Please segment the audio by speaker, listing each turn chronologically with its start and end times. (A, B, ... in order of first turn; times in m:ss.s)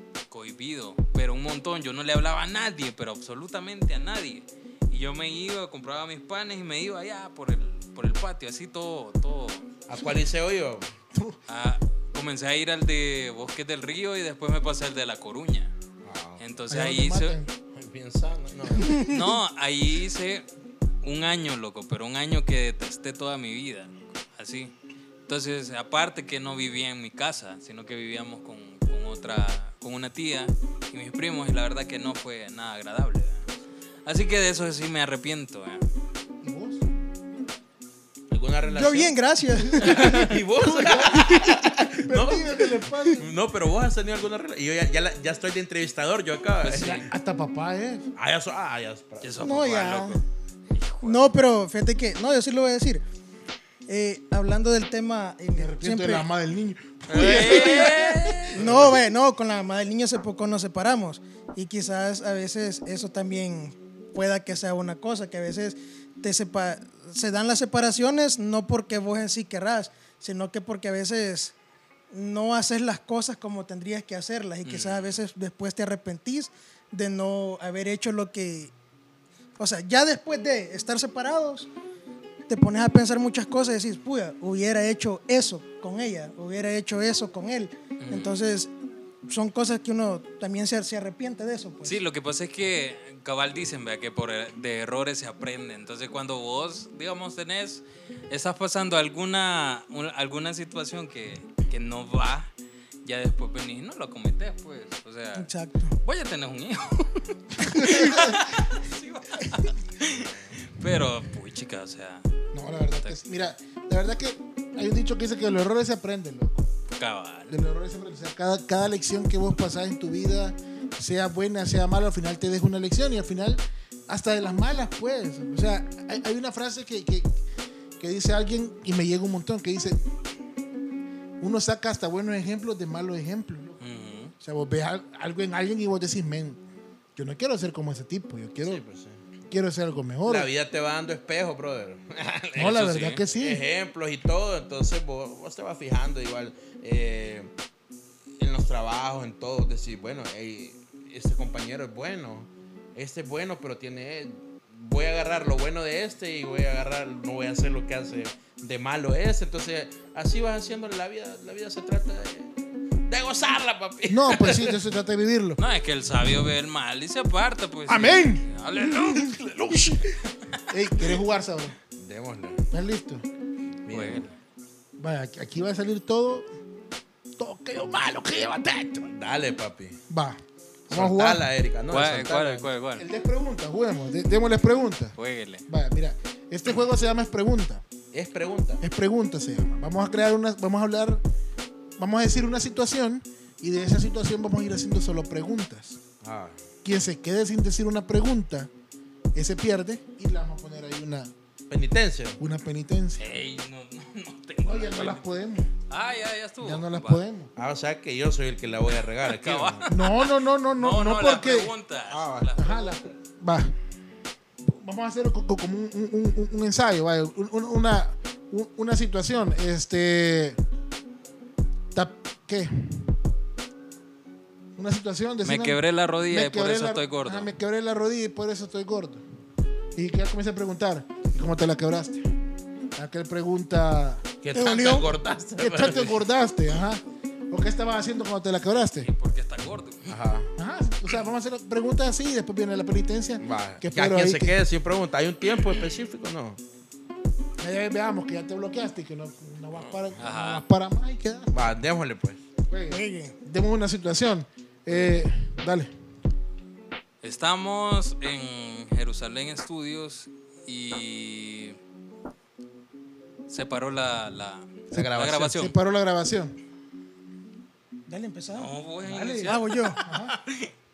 0:00.3-0:09.7 A
0:09.9-0:10.9 B
0:11.1-0:11.4 C
0:11.5-0:15.7 A
0:16.0-0:16.4 B
0:16.4-0:17.4 A
0:16.7-0:17.5 C
0:17.7-0:19.1 B
0:18.8-0:19.1 C
0:18.9-0:20.4 A
0:21.0-0:24.7 A
0:25.3-0:33.4 A
0:34.0-0:35.8 A
0:36.4-0:36.8 C
0:38.3-0:39.2 B
0:38.7-0:40.4 D
0:39.6-0:43.3 C
0:39.8-0:47.0 B
0:46.6-0:47.0 A
0:46.7-0:48.1 C
0:48.2-0:49.4 B
0:49.2-0:50.2 A
0:49.4-0:50.2 D
0:50.7-0:51.3 A
0:51.0-0:53.0 D
0:53.9-0:56.3 D
0:55.5-0:58.9 C
0:57.1-0:58.6 A
0:57.1-1:11.5 D
0:58.6-0:58.9 B
1:12.1-1:18.7 D
1:14.6-1:15.2 A
1:19.6-1:21.7 D
1:22.5-1:28.7 D
1:28.0-1:28.3 A
1:29.3-1:32.0 D
1:31.8-1:42.5 A
1:43.0-1:45.5 A
1:45.4-1:45.9 D
1:46.0-1:52.2 A
1:47.6-1:48.3 C
1:50.2-1:50.5 B
1:52.5-1:56.7 C
1:56.9-1:57.6 A
1:57.5-2:07.3 C
2:08.0-2:10.0 C
2:11.4-2:13.8 C
2:13.8-2:14.3 A
2:14.4-2:16.6 C
2:17.2-2:18.8 C
2:18.6-2:19.2 B
2:19.5-2:20.5 C
2:20.2-2:27.5 B
2:22.6-2:23.6 C
2:22.6-2:23.2 A
2:28.4-2:42.5 B
2:43.1-2:44.8 B
2:44.1-2:45.6 C
2:45.6-2:50.0 A
2:47.9-2:51.8 C
2:52.0-2:52.7 B
2:52.7-2:53.2 C
2:53.8-2:54.3 B
2:53.9-2:54.3 A
2:55.0-2:56.5 C
2:57.4-2:59.1 C
2:59.1-3:00.0 B
3:00.1-3:01.5 C
3:00.9-3:02.7 B
3:01.9-3:03.0 A
3:03.0-3:05.2 C
3:05.2-3:05.6 A
3:05.7-3:07.8 C
3:08.1-3:08.8 B
3:08.8-3:11.2 C
3:12.0-3:16.0 C
3:16.2-3:16.6 B
3:16.8-3:18.7 C
3:19.3-3:21.3 C
3:21.7-3:22.4 B
3:22.4-3:23.3 C
3:23.2-3:25.2 A
3:24.6-3:25.7 C
3:25.9-3:27.2 A
3:26.6-3:27.5 C
3:27.6-3:29.9 B
3:29.2-3:33.0 A
3:29.9-3:31.7 C
3:32.1-3:32.6 B
3:32.6-3:33.8 C
3:34.6-3:40.6 C
3:41.9-3:43.2 C
3:44.8-3:49.2 C
3:45.4-3:47.5 A
3:49.9-3:52.3 C
3:53.0-3:54.2 C
3:54.4-3:56.2 B
3:54.5-3:55.1 D
3:55.6-3:59.1 C
3:58.8-4:00.2 A
4:00.1-4:00.5 B
4:00.6-4:04.6 C
4:03.4-4:06.6 B
4:07.6-4:11.7 C
4:09.8-4:10.1 B
4:10.2-4:10.6 A
4:11.5-4:12.4 B
4:12.7-4:15.9 C
4:12.9-4:13.4 D
4:17.2-4:21.8 A
4:23.5-4:25.7 A
4:24.9-4:26.6 C
4:24.9-4:25.4 B
4:28.1-4:28.7 D
4:28.5-4:30.7 A
4:29.0-4:30.4 C
4:29.4-4:30.0 D